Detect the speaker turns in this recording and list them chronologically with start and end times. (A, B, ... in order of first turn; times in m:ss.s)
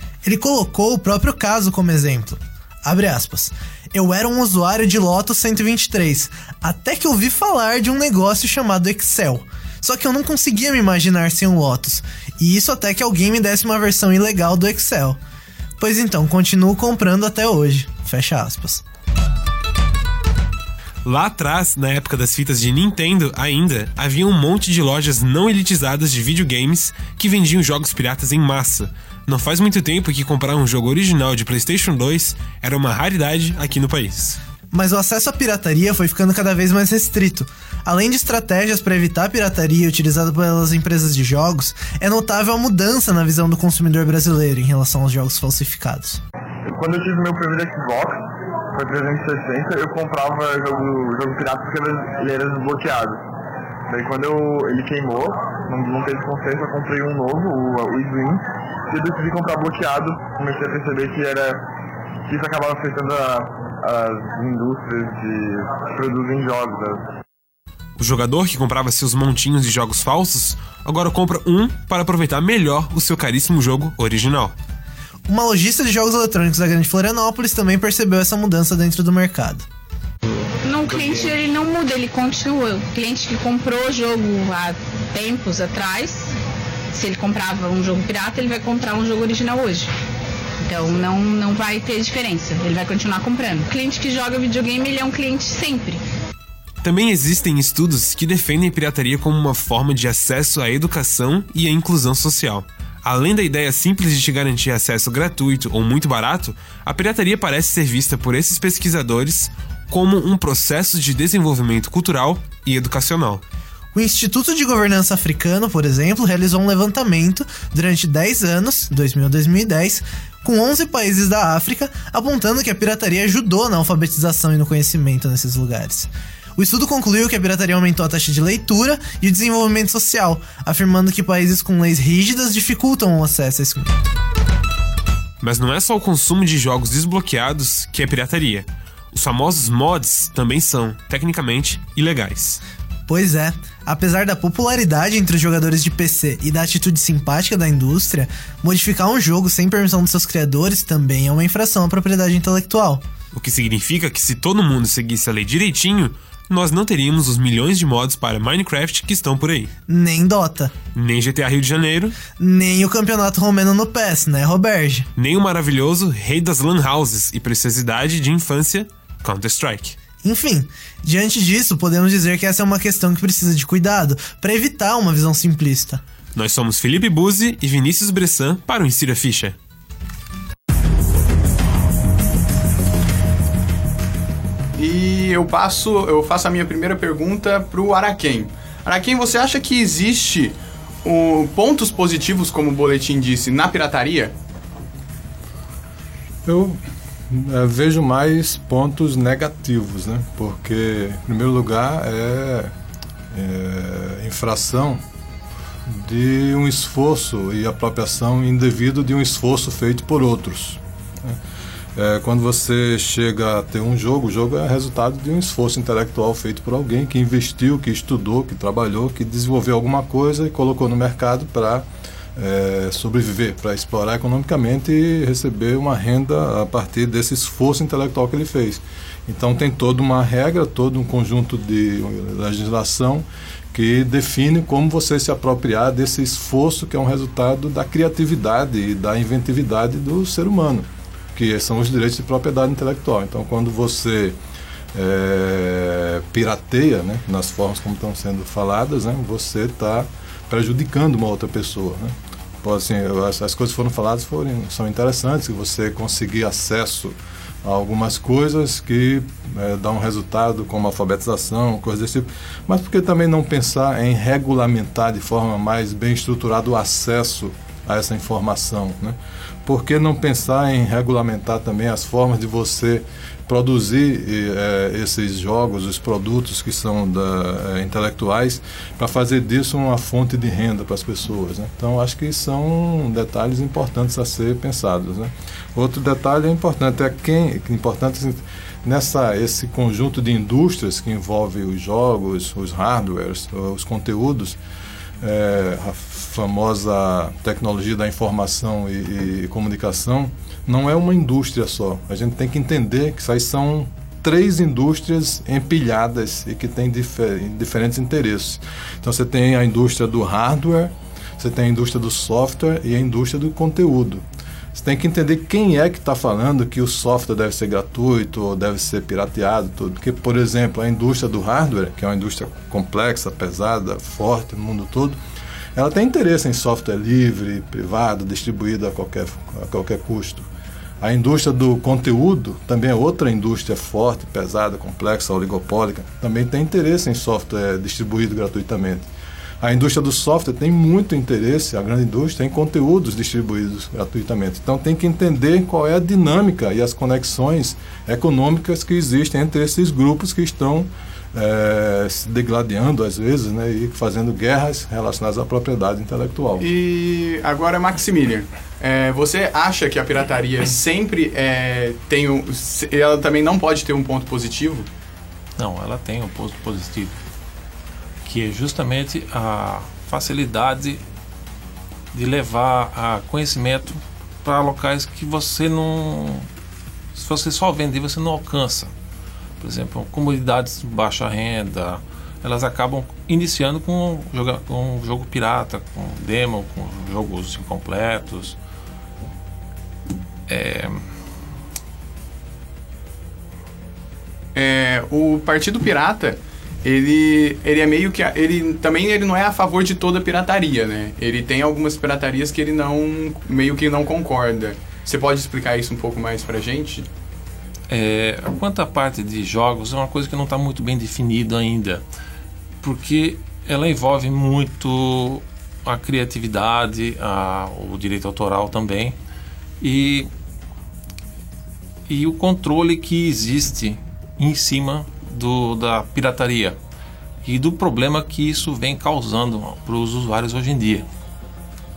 0:00.2-0:15.2 A
0:15.8-0:18.8 A
0:21.0-0:34.4 B
0:34.7-0:46.2 A
0:46.7-0:53.2 C
0:53.9-1:01.6 C
1:02.3-1:07.0 C
1:08.0-1:14.5 B
1:15.3-1:19.6 A
1:20.6-1:26.3 D
1:26.9-1:29.9 D
1:30.6-1:36.0 D
1:36.8-1:53.4 B
1:53.9-2:14.0 A
2:15.4-2:22.6 B
2:23.1-2:33.0 A
2:33.3-2:39.7 B
2:39.9-2:40.7 A
2:40.9-2:42.2 B
2:42.4-2:45.1 A
2:45.2-2:50.0 B
2:50.2-2:56.0 A
2:56.3-2:59.6 B
3:04.8-3:14.3 E
3:16.4-3:22.7 F
3:23.3-3:25.0 F
3:25.8-3:31.4 F
3:31.9-4:04.4 F
4:04.9-4:54.6 F
4:55.2-5:25.2 F
5:25.7-5:30.5 F
5:31.0-5:39.0 F
5:39.6-5:56.6 F
5:56.6-6:04.9 E
6:05.6-6:07.2 G
6:08.2-6:11.0 G
6:12.1-6:16.5 G
6:17.1-6:18.9 G
6:19.6-6:28.6 G
6:30.5-6:31.0 G
6:34.5-6:47.1 E
6:47.9-6:52.0 G
6:52.8-6:59.2 G
6:59.8-7:00.3 G
7:02.1-7:06.8 G
7:07.4-7:11.1 G